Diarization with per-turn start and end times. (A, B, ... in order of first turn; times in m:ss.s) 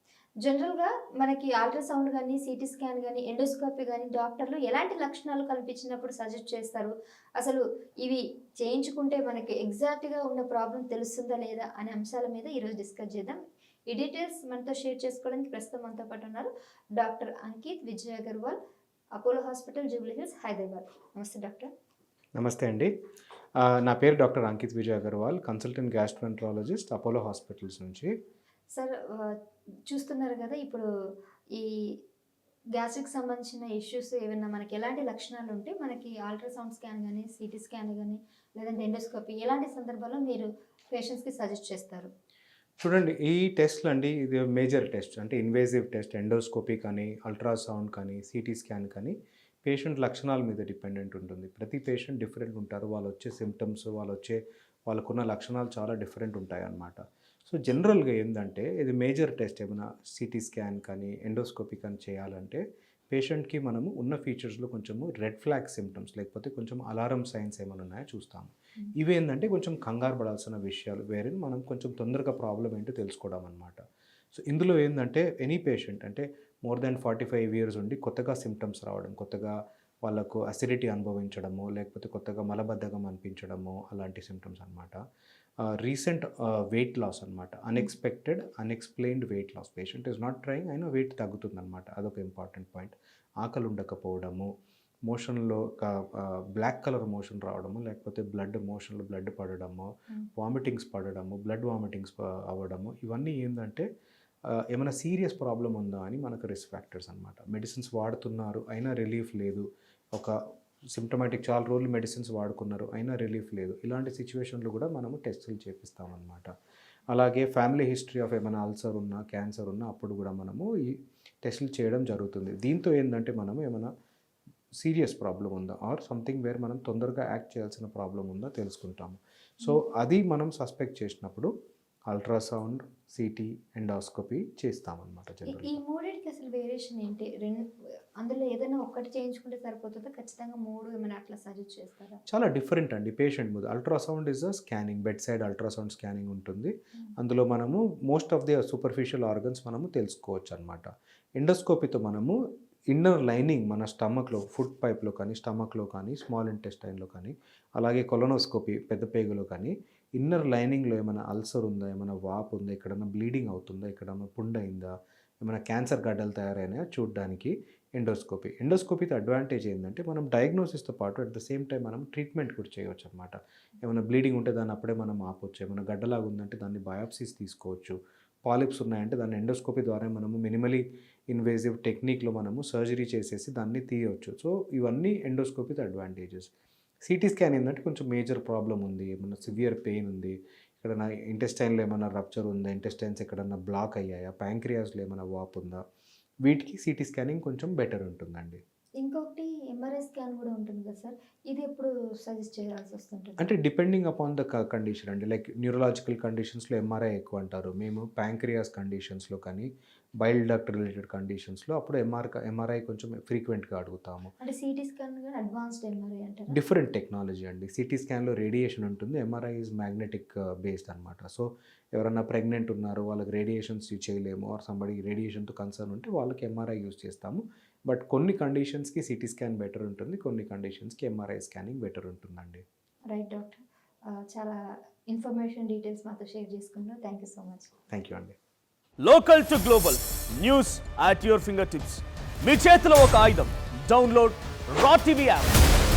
0:00.4-0:18.6 A
0:19.2-0:21.7 A
0:22.4-0:22.9 B
0:23.6-0:28.1 B
0:28.7-0:30.8 A
0:31.5-0:32.0 A
0:32.8-0:42.1 A
0:42.8-1:13.8 B
1:14.4-1:25.0 B
1:25.6-1:34.5 B
1:35.1-1:43.8 B
1:44.7-1:50.3 B
1:50.9-1:56.5 B
1:57.1-2:03.9 B
2:04.8-2:11.5 B
2:12.1-2:15.8 B
2:15.5-2:17.7 A
2:18.2-2:22.2 A
2:22.3-2:32.4 B
2:32.9-2:44.9 B
2:45.4-3:06.5 B
3:07.1-3:15.8 B
3:16.4-3:18.6 B
3:19.0-3:23.5 A
3:23.4-3:29.7 B
3:30.2-3:34.3 B
3:34.4-3:36.6 A
3:36.5-3:52.6 B
3:53.1-3:57.7 A
3:57.9-3:58.4 B
3:59.0-4:05.5 C